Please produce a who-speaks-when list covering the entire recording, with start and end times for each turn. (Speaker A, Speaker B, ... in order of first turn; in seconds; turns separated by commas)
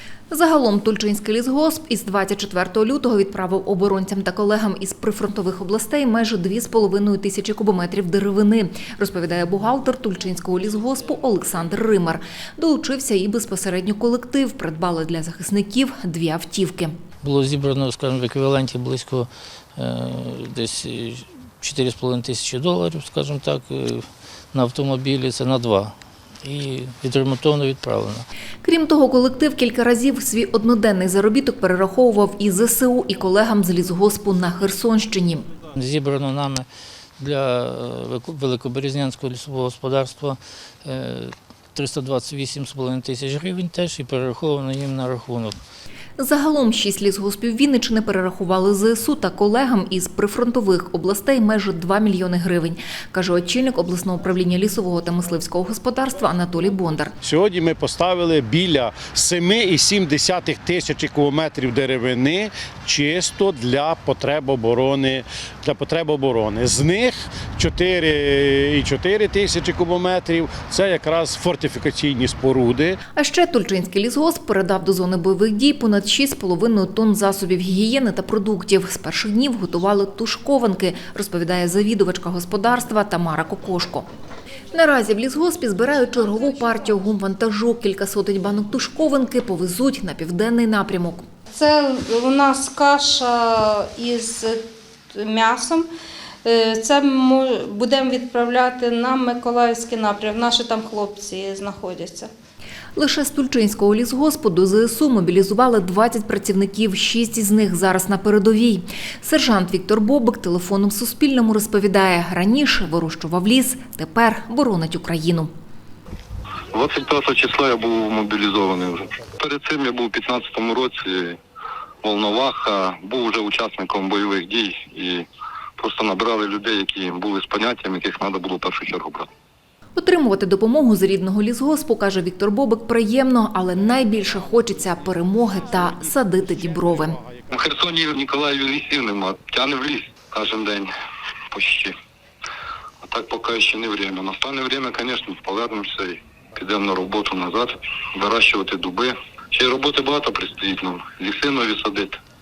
Speaker A: 0.3-16.9, Speaker B: 17.2-28.3, Speaker A: 28.6-35.5, Speaker B: 35.7-45.6, Speaker A: 46.2-57.1, Speaker C: 57.2-73.0, Speaker A: 73.2-84.0, Speaker A: 84.7-91.2, Speaker D: 91.5-95.9, Speaker D: 96.4-102.3, Speaker A: 103.0-115.5, Speaker E: 116.7-121.4, Speaker E: 122.0-129.3, Speaker A: 129.9-137.2, Speaker E: 137.5-140.9, Speaker E: 141.5-141.9, Speaker E: 143.0-152.2